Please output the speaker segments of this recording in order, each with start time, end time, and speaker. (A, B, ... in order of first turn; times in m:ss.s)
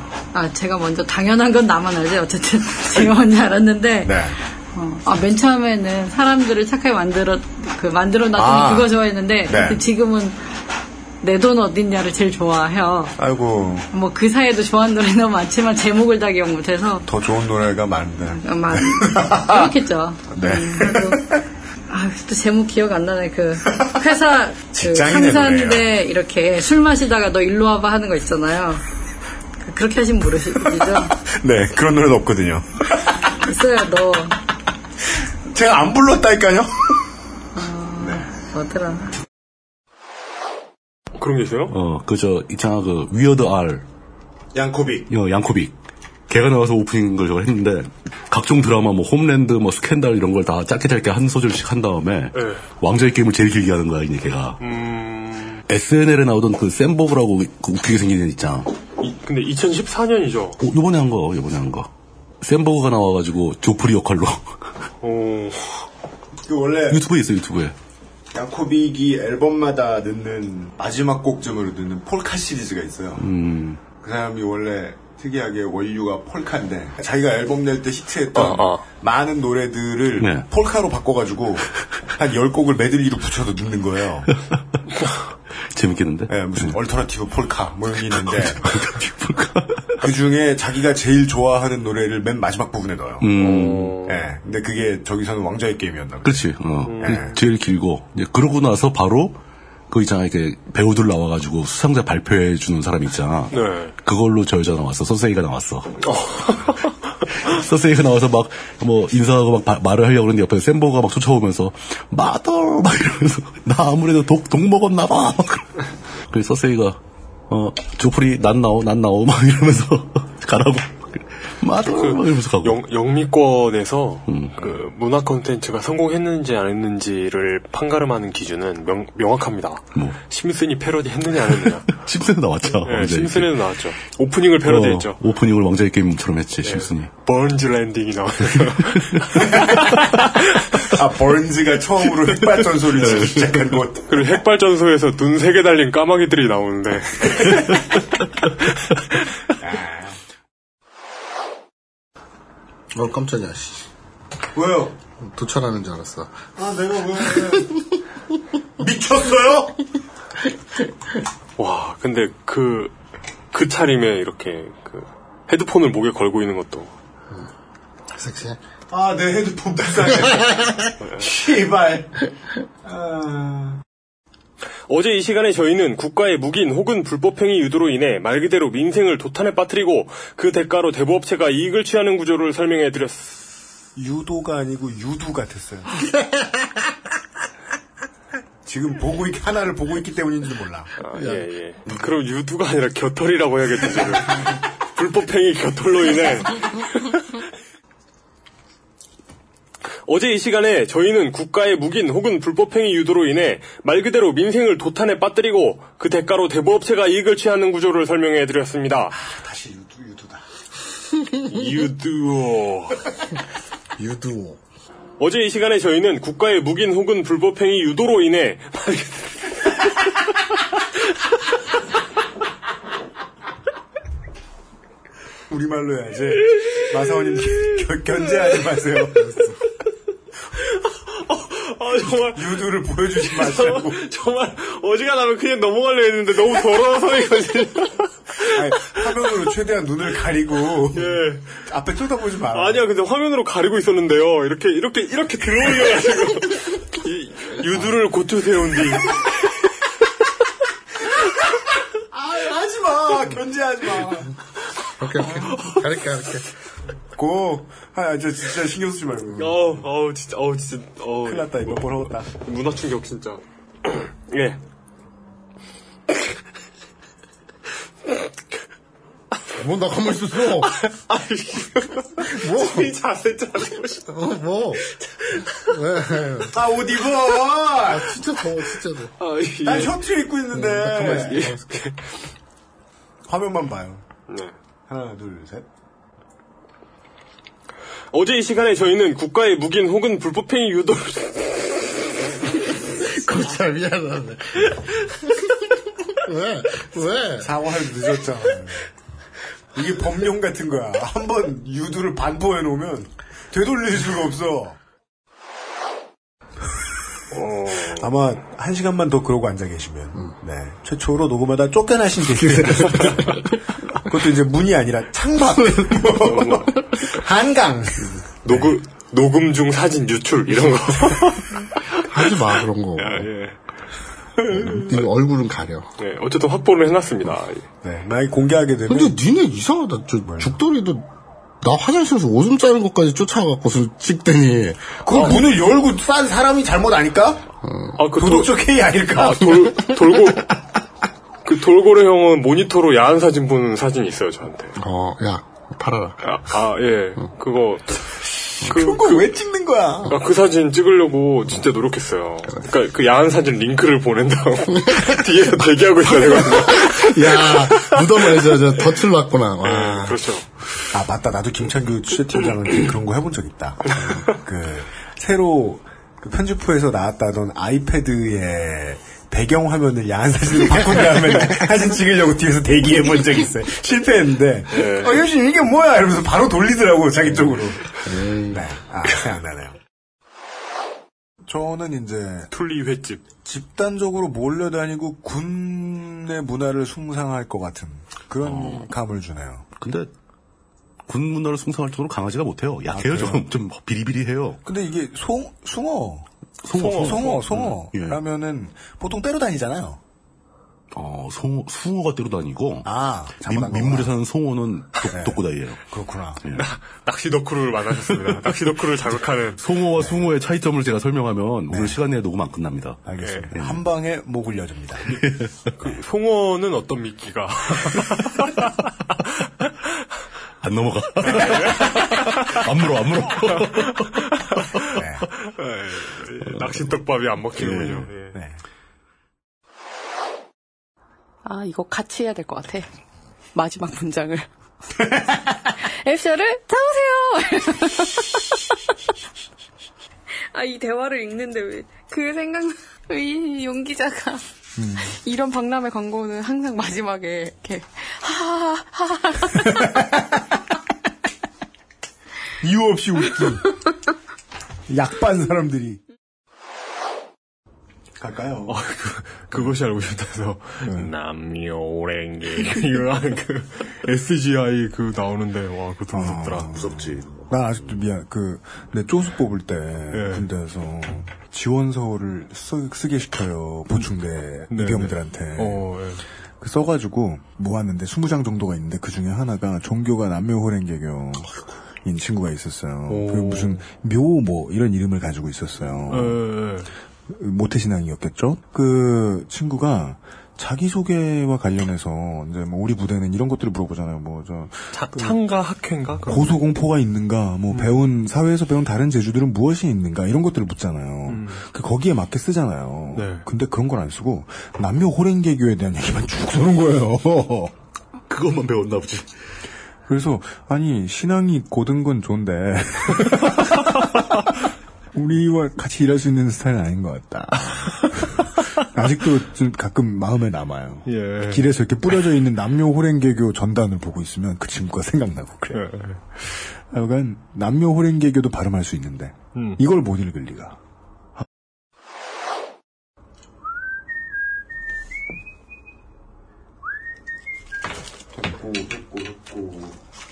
0:00.3-0:10.4 A
0:04.0-0:04.3 B
0:08.3-0:08.9 B
0:09.5-0:09.8 B
0:11.2-0:13.2 A
0:13.2-0:13.9 B
0:13.9-0:17.0 A
0:17.0-0:19.7 B
0:18.3-0:21.2 A
0:20.3-0:21.2 B
0:21.9-0:28.8 A
0:24.7-0:25.9 B
0:29.6-0:31.2 A
0:31.1-0:32.7 B
0:33.4-0:34.4 A
0:35.5-0:36.7 B
0:37.5-0:39.1 A
0:38.0-0:38.2 B
0:41.2-0:41.7 C
0:41.7-0:43.8 D
0:44.5-0:45.0 B
0:45.1-0:45.8 D
0:46.3-0:54.6 D
0:52.3-0:52.6 C
0:54.6-0:55.6 C
0:55.7-0:58.7 D
0:59.0-1:00.6 C
1:00.6-1:01.9 D
1:02.4-1:04.8 D
1:05.0-1:05.8 C
1:06.4-1:07.0 B
1:06.9-1:07.7 D
1:08.3-1:13.2 B
1:13.2-1:13.9 D
1:13.8-1:21.6 B
1:18.3-1:18.8 C
1:20.2-1:20.5 D
1:22.2-1:24.3 B
1:25.6-1:26.8 D
1:26.3-1:28.6 B
1:28.1-1:30.0 D
1:30.0-1:33.3 B
1:33.2-1:34.0 D
1:33.3-1:34.3 C
1:34.1-1:37.4 B
1:36.2-1:45.9 D
1:36.8-1:37.2 C
1:43.5-1:43.9 C
1:46.0-1:46.9 C
1:47.4-2:02.8 D
2:01.8-2:12.0 C
2:04.3-2:04.8 D
2:11.6-2:13.6 D
2:12.8-2:15.2 C
2:14.6-2:17.1 D
2:16.6-2:20.0 C
2:20.9-2:24.0 B
2:24.1-2:27.8 C
2:29.6-2:30.1 B
2:32.9-2:33.8 E
2:34.6-2:34.9 B
2:35.2-2:36.4 E
2:36.6-2:37.6 B
2:38.8-2:39.7 B
2:41.6-2:42.9 C
2:43.5-2:46.9 C
2:48.1-2:48.6 E
2:48.9-2:50.5 B
2:51.2-2:52.1 B
2:52.8-2:53.8 B
2:54.9-3:03.4 C
3:04.0-3:05.9 B
3:08.6-3:10.9 B
3:11.0-3:17.2 C
3:20.0-3:29.1 C
3:29.1-3:30.4 B
3:31.4-3:33.0 C
3:34.0-3:34.6 E
3:35.2-3:39.6 C
3:45.5-3:49.3 B
3:51.2-3:59.0 C
3:52.3-3:54.0 B
3:58.5-4:02.8 B
4:00.9-4:01.6 C
4:02.5-4:09.2 C
4:12.1-4:14.3 B
4:15.0-4:16.4 E
4:17.2-4:19.8 B
4:19.3-4:24.6 C
4:21.2-4:22.3 B
4:29.6-4:30.7 E
4:30.6-4:34.1 C
4:32.2-4:32.9 E
4:34.1-4:34.8 E
4:34.9-4:35.5 C
4:35.6-4:36.5 E
4:36.5-4:38.0 B
4:37.9-4:39.1 E
4:39.2-4:40.0 C
4:39.6-4:41.5 B
4:40.5-4:41.6 E
4:41.0-4:42.1 C
4:43.3-4:44.0 B
4:44.3-4:44.5 C
4:44.9-4:45.6 B
4:48.1-4:52.0 C
4:52.6-4:54.8 E
4:56.2-4:57.5 E
4:57.4-4:58.8 B
4:59.7-5:04.8 B
5:07.3-5:08.1 C
5:07.9-5:13.4 B
5:14.1-5:18.8 B
5:16.1-5:16.9 C
5:18.4-5:21.6 C
5:22.1-5:23.3 E
5:22.2-5:23.6 C
5:24.5-5:25.9 E
5:26.0-5:27.6 C
5:27.8-5:29.2 B
5:28.9-5:31.0 E
5:31.6-5:35.0 E
5:35.0-5:37.4 B
5:35.1-5:35.4 C
5:37.6-5:38.0 E
5:38.0-5:40.5 C
5:38.1-5:39.7 B
5:41.4-5:44.7 C
5:44.8-5:46.2 E
5:46.2-5:49.4 C
5:48.6-5:50.2 B
5:50.0-5:58.8 C
5:56.1-6:00.2 E
5:59.6-6:00.5 C
6:00.9-6:17.8 B
6:03.9-6:04.3 C
6:14.7-6:15.2 C
6:18.1-6:18.6 E
6:18.5-6:19.7 B
6:21.4-6:22.5 B
6:22.5-6:23.2 C
6:23.4-6:29.6 B
6:28.4-6:28.9 D
6:29.8-6:30.1 D
6:31.1-6:34.6 D
6:32.9-6:33.5 B
6:34.6-6:36.3 B
6:36.6-6:38.2 D
6:36.8-6:37.4 C
6:36.8-6:40.0 B
6:40.9-6:42.9 D
6:42.8-6:44.1 B
6:43.4-6:45.8 D
6:45.1-6:46.4 B
6:46.4-6:46.7 D
6:46.5-6:49.6 C
6:48.1-6:48.5 D
6:49.6-6:53.8 D
6:50.0-6:50.3 B
6:51.7-6:52.0 B
6:53.0-6:55.1 B
6:53.2-6:53.5 C
6:55.1-6:55.7 D
6:55.8-6:58.6 C
7:00.6-7:03.9 D
7:01.2-7:02.6 C
7:03.4-7:08.4 C
7:04.9-7:05.2 B
7:06.4-7:06.9 D
7:07.5-7:08.1 D
7:11.4-7:12.9 F
7:13.5-7:14.5 F
7:15.8-7:18.3 F
7:20.5-7:24.4 F
7:24.8-7:25.1 B
7:25.0-7:29.6 F
7:32.6-7:33.7 B
7:34.9-7:36.0 B
7:38.2-7:38.8 B
7:38.6-7:46.7 C
7:40.8-7:41.1 B
7:46.1-7:55.9 B
7:46.7-7:48.0 D
7:50.1-7:50.5 C
7:54.7-7:56.2 C
7:56.6-8:01.5 B
8:02.0-8:06.4 B
8:03.1-8:03.8 C
8:06.1-8:06.9 C
8:07.3-8:15.4 B
8:14.9-8:16.6 C
8:16.2-8:27.7 B
8:17.7-8:18.0 C
8:21.3-8:21.6 C
8:23.1-8:23.5 C
8:28.3-8:29.4 D
8:30.0-8:33.8 B
8:35.1-8:38.4 B
8:38.9-8:45.8 B
8:41.0-8:41.7 C
8:45.7-8:46.2 C
8:46.9-8:50.8 B
8:49.5-8:49.8 C
8:58.4-8:59.9 B